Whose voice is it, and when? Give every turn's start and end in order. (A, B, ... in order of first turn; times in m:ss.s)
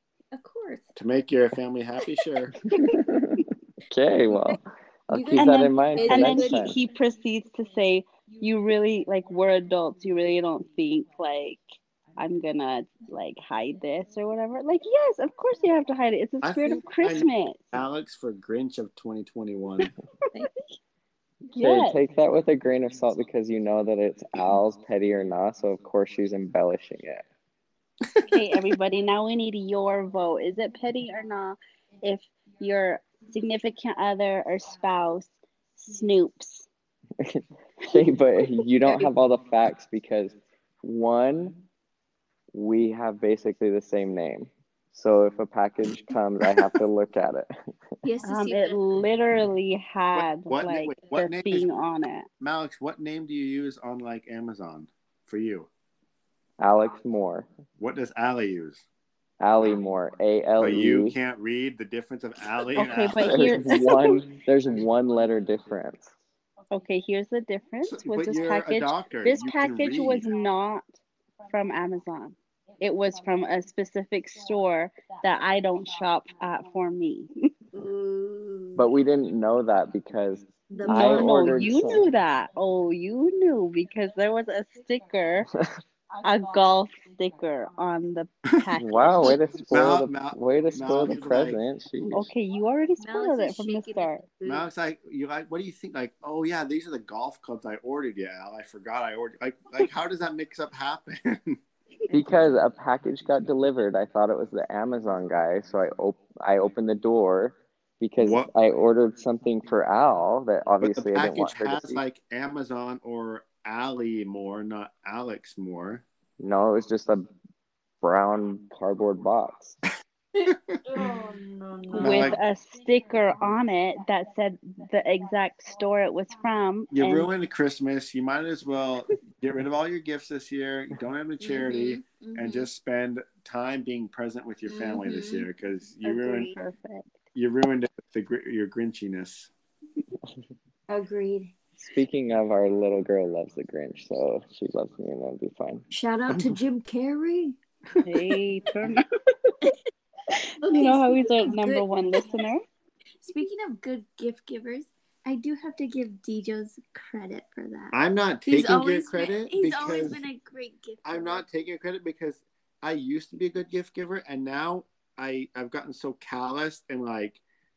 0:00.3-0:01.0 A
0:00.9-0:02.5 B
0:02.7-0:03.4 C
0:02.8-0:06.7 D
0:04.2-0:04.6 A
0:05.1-0:06.8 A
0:05.4-0:11.6 C
0:12.2-0:17.8 C
0:16.4-0:19.9 B
0:21.5-0:22.0 C
0:21.6-0:27.2 D
0:28.3-0:36.7 C
0:37.2-0:41.6 D
0:38.8-0:39.1 A
0:42.5-0:47.5 D
0:48.0-0:48.8 A
0:48.2-0:52.3 C
0:50.1-0:51.7 B
0:52.4-0:55.7 B
0:56.6-0:57.5 D
0:57.8-0:58.8 B
0:59.4-1:01.1 D
1:00.6-1:03.8 B
1:02.8-1:04.2 C
1:03.2-1:06.1 D
1:06.7-1:10.9 C
1:07.8-1:10.3 B
1:11.5-1:17.3 C
1:17.7-1:18.9 A
1:18.8-1:22.1 D
1:20.7-1:21.6 A
1:20.8-1:25.5 C
1:26.2-1:29.4 C
1:28.8-1:32.3 D
1:29.7-1:31.6 B
1:32.1-1:34.2 C
1:33.0-1:34.6 A
1:34.4-1:41.6 B
1:42.1-1:52.0 D
1:48.2-1:48.5 B
1:50.8-1:56.0 B
1:56.4-1:57.3 D
1:58.0-1:59.8 D
2:00.4-2:02.4 A
2:00.5-2:00.8 B
2:01.9-2:07.3 C
2:02.0-2:02.4 B
2:06.9-2:16.5 B
2:11.4-2:12.7 A
2:14.7-2:15.5 A
2:16.0-2:17.1 C
2:17.3-2:19.5 B
2:20.9-2:21.5 A
2:21.8-2:25.8 D
2:25.9-2:27.6 A
2:26.3-2:26.6 B
2:28.0-2:29.5 C
2:30.3-2:32.6 C
2:30.6-2:32.2 A
2:33.2-2:41.4 A
2:37.9-2:40.2 B
2:41.0-2:47.4 B